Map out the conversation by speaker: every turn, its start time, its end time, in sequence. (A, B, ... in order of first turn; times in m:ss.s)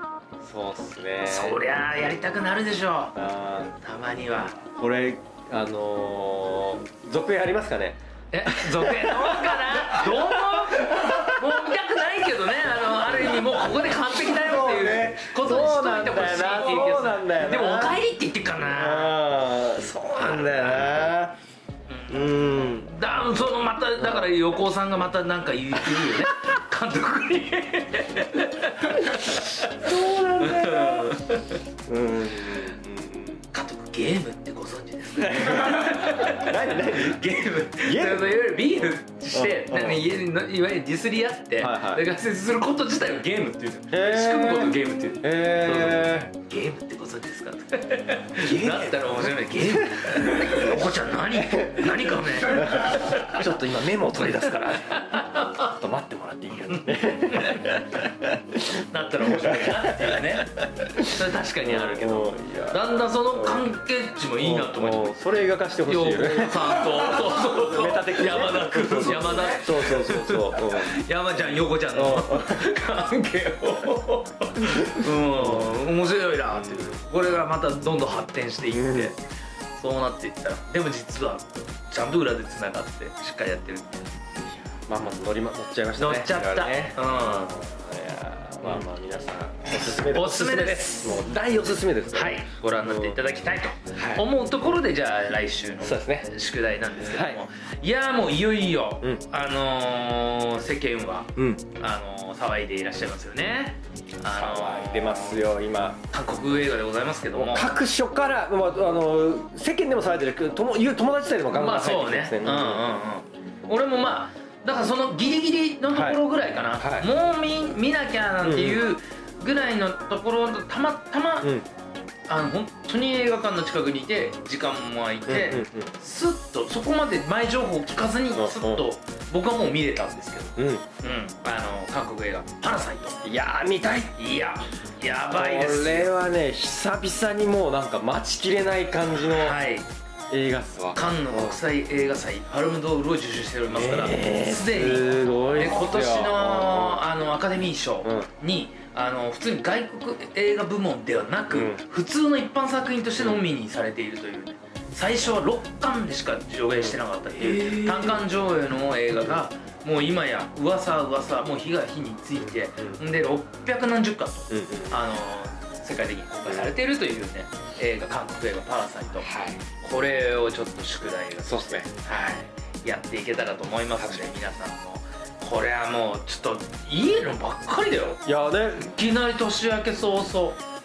0:00.4-0:01.6 A
0:01.2-0:03.2 B
0:03.2-0:03.8 A
0:03.8-0:04.6 B
0:04.7-0:11.8 A
0:08.3-0:19.2 B
0:13.1-0:18.0 A
0:18.6-0:21.4 A
0:20.2-0:20.9 B
0:21.9-0:31.6 B
0:22.1-0:22.9 A
0:24.0-0:24.3 A
0:25.8-0:26.3 A
0:28.8-0:31.2 A
0:31.9-0:33.4 A
0:33.5-0:53.4 B
0:35.2-0:38.7 A
0:39.3-0:40.1 A
0:41.6-0:42.0 A
0:43.9-0:46.3 A
0:48.4-1:03.6 A
0:54.2-0:55.7 B
0:56.7-0:57.8 B
0:58.8-1:05.2 B
1:04.4-1:11.0 A
1:05.9-1:19.2 B
1:11.9-1:12.7 A
1:14.7-1:15.7 A
1:16.5-1:17.1 A
1:18.7-1:19.1 A
1:19.8-1:24.2 B
1:24.9-1:33.2 A
1:26.0-1:27.5 B
1:30.0-1:45.4 B
1:33.9-1:34.3 A
1:35.8-1:36.3 A
1:36.9-1:37.4 A
1:41.4-1:41.6 A
1:44.3-1:46.0 A
1:46.1-1:47.8 B
1:47.3-1:53.0 A
1:51.5-2:01.6 B
1:55.9-1:56.2 A
1:56.8-1:57.1 A
1:58.4-1:58.8 A
2:02.3-2:13.2 B
2:05.3-2:05.9 A
2:08.4-2:08.8 A
2:10.6-2:10.8 A
2:13.2-2:14.1 A
2:14.2-2:16.1 B
2:15.3-2:19.6 A
2:19.4-2:19.9 B
2:20.3-2:21.6 A
2:20.9-2:58.2 B
2:23.7-2:27.0 A
2:31.5-2:31.8 A
2:33.2-2:33.4 A
2:37.6-2:38.1 A
2:44.5-2:45.0 A
2:46.5-2:46.7 A
2:49.2-2:49.6 A
2:51.4-2:51.9 A
2:54.0-2:54.3 A
2:58.3-2:58.9 A
2:58.8-3:00.6 B